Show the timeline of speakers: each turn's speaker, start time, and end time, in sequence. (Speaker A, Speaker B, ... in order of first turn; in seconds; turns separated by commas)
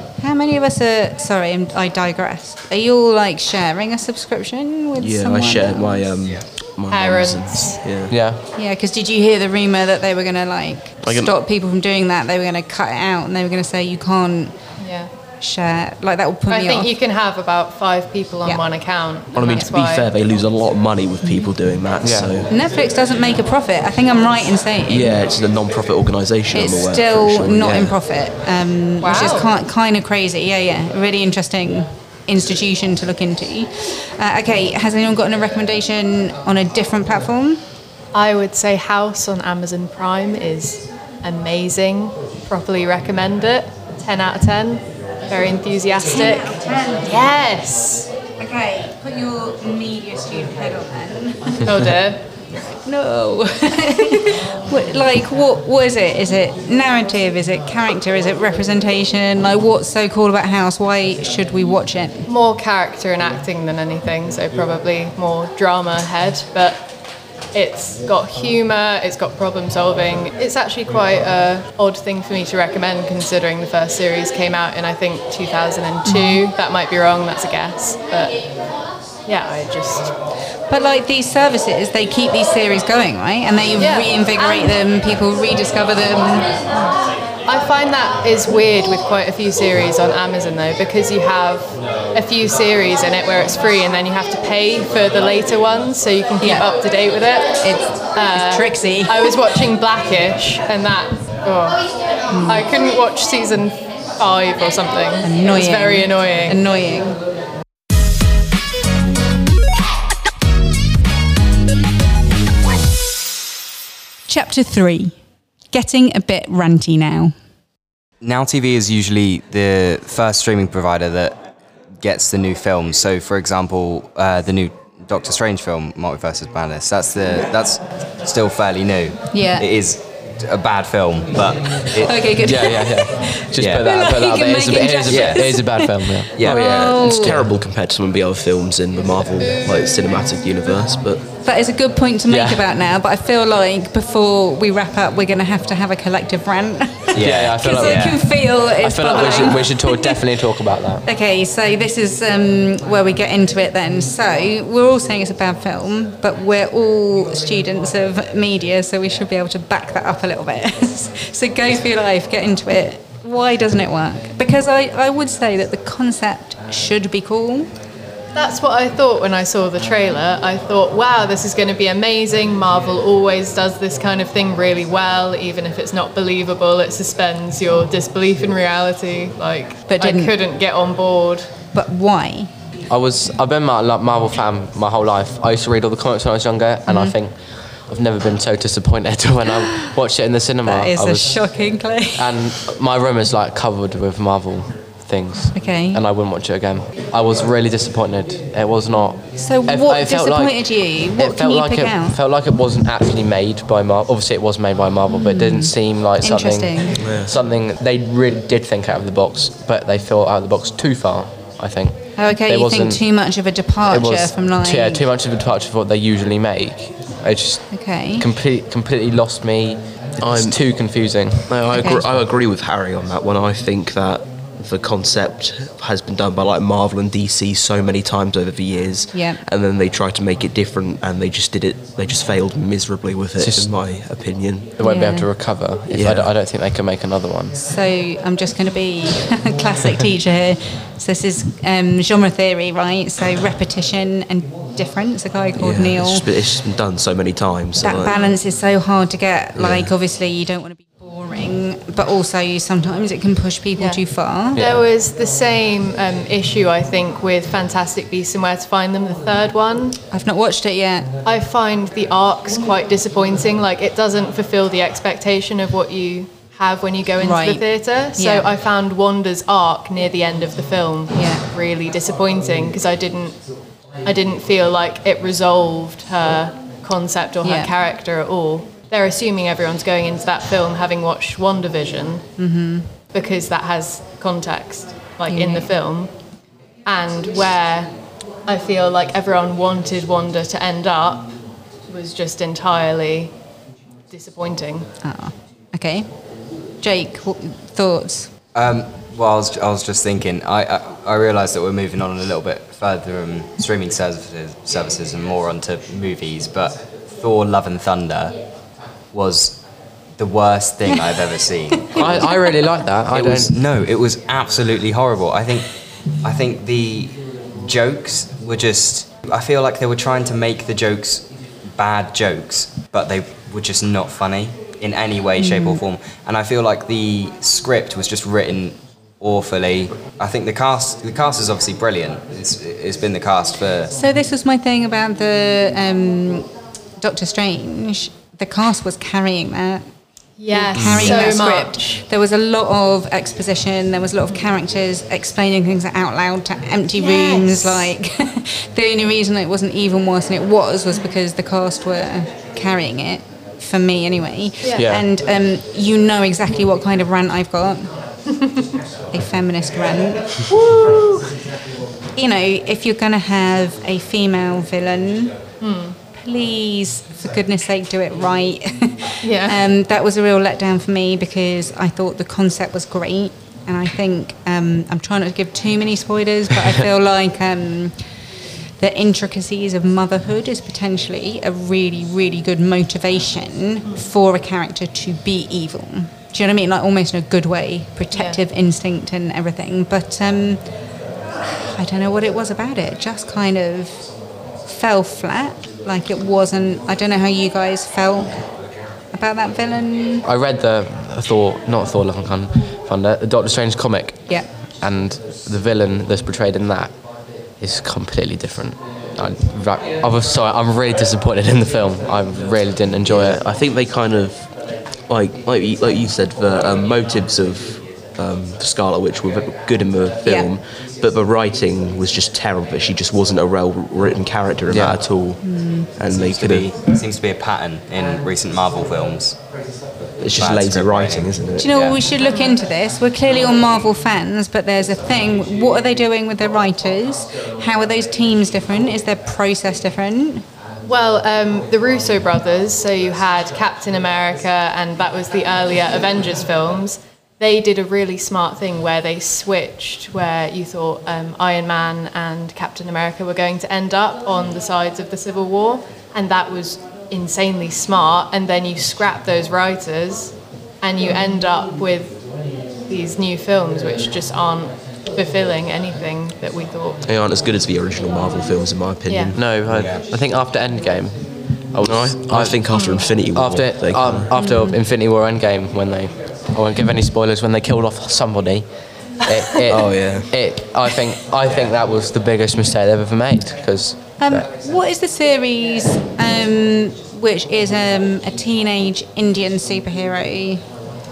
Speaker A: 0.2-6.1, Speaker B: 5.0-8.2, Speaker C: 6.9-7.8, Speaker D: 8.1-8.4, Speaker A: 8.6-14.6, Speaker B: 11.0-11.4, Speaker C: 14.8-15.1, Speaker A: 15.4-16.9, Speaker C: 16.5-20.1, Speaker B: 19.3-22.5, Speaker A: 21.2-21.5, Speaker D: 22.0-22.3, Speaker A: 22.5-25.2, Speaker B: 24.9-28.0, Speaker A: 26.5-37.6, Speaker C: 29.0-29.5, Speaker C: 38.1-48.1, Speaker A: 46.0-47.3, Speaker A: 48.4-51.7, Speaker C: 51.6-52.2, Speaker A: 52.7-62.3, Speaker C: 62.3-66.9, Speaker C: 67.5-78.4, Speaker A: 76.0-76.4, Speaker C: 79.3-80.1, Speaker A: 80.7-86.5, Speaker C: 83.8-84.8, Speaker C: 86.7-101.9, Speaker A: 96.4-96.7, Speaker A: 97.6-99.4, Speaker A: 102.3-102.7, Speaker C: 102.5-106.6, Speaker A: 105.2-107.2, Speaker A: 114.3-115.2, Speaker A: 115.7-117.3, Speaker E: 118.2-121.4, Speaker E: 122.0-132.3, Speaker A: 129.3-129.7, Speaker A: 132.0-137.4, Speaker D: 132.4-136.5, Speaker E: 133.6-133.8, Speaker E: 135.1-135.5, Speaker E: 136.3-136.7, Speaker B: 136.4-141.3, Speaker A: 141.4-150.3, Speaker D: 142.3-142.7, Speaker E: 147.1-148.2, Speaker D: 147.2-151.1, Speaker A: 151.0-167.7, Speaker C: 168.3-181.5, Speaker A: 179.9-180.4, Speaker A: 181.7-182.5, Speaker D: 182.9-191.4, Speaker A: 186.9-187.2, Speaker A: 189.5-189.9, Speaker A: 190.7-192.5, Speaker D: 192.2-213.0, Speaker A: 195.5-196.0, Speaker A: 199.4-202.2, Speaker A: 205.1-207.1, Speaker B: 207.0-207.3, Speaker A: 212.2-215.1, Speaker D: 213.9-221.8, Speaker A: 217.7-218.3, Speaker B: 220.2-220.6, Speaker B: 221.5-234.8, Speaker A: 221.7-222.0, Speaker A: 229.1-229.4, Speaker D: 233.4-233.7, Speaker D: 234.8-237.6, Speaker A: 234.8-235.3, Speaker B: 235.9-236.3, Speaker A: 237.6-246.3, Speaker B: 245.6-248.2, Speaker A: 247.8-254.6, Speaker C: 248.1-248.4, Speaker B: 249.6-249.9, Speaker C: 253.8-254.0, Speaker C: 254.5-260.0, Speaker D: 254.6-254.8, Speaker A: 260.1-261.1, Speaker C: 261.2-273.4, Speaker A: 267.2-267.6, Speaker A: 268.2-268.5, Speaker A: 271.1-271.4, Speaker C: 274.0-282.3, Speaker A: 277.4-277.7, Speaker A: 282.4-282.9, Speaker C: 283.1-286.1, Speaker A: 285.3-285.7, Speaker C: 286.9-287.9, Speaker C: 288.5-291.3, Speaker C: 291.9-293.3, Speaker C: 294.1-294.9, Speaker A: 295.0-296.1, Speaker A: 296.8-298.3, Speaker E: 298.5-308.4, Speaker E: 309.1-309.6, Speaker E: 310.2-312.3, Speaker A: 311.8-312.4, Speaker D: 311.9-313.6, Speaker E: 313.1-315.7, Speaker E: 316.2-333.9, Speaker A: 325.4-325.8, Speaker A: 333.9-336.5, Speaker A: 337.0-339.9, Speaker C: 340.4-342.0, Speaker A: 340.5-357.9, Speaker B: 340.8-341.1, Speaker C: 347.0-347.9, Speaker D: 354.7-355.1, Speaker A: 359.1-361.1, Speaker C: 360.6-361.2, Speaker A: 362.2-365.4, Speaker C: 365.6-366.0, Speaker A: 366.1-378.0, Speaker C: 369.2-369.6, Speaker A: 378.8-390.6, Speaker C: 388.1-388.4, Speaker A: 391.4-394.0, Speaker A: 394.6-398.4, Speaker A: 399.1-400.2, Speaker D: 400.2-406.9, Speaker D: 407.6-413.4, Speaker B: 413.1-414.5, Speaker B: 415.1-425.4, Speaker A: 420.2-420.5, Speaker D: 424.7-425.0, Speaker A: 425.4-425.9, Speaker B: 426.0-426.7, Speaker E: 426.0-429.4, Speaker B: 430.2-431.7, Speaker E: 430.4-432.0, Speaker A: 431.6-440.4, Speaker C: 432.2-432.5, Speaker C: 440.9-462.2, Speaker C: 462.9-467.0, Speaker B: 467.1-469.9, Speaker C: 469.1-469.4, Speaker D: 469.3-472.6, Speaker E: 469.7-470.0, Speaker B: 471.8-474.3, Speaker C: 472.7-473.1, Speaker D: 473.3-478.7, Speaker A: 474.4-474.8, Speaker D: 479.2-484.5, Speaker B: 479.7-480.3, Speaker A: 484.2-490.6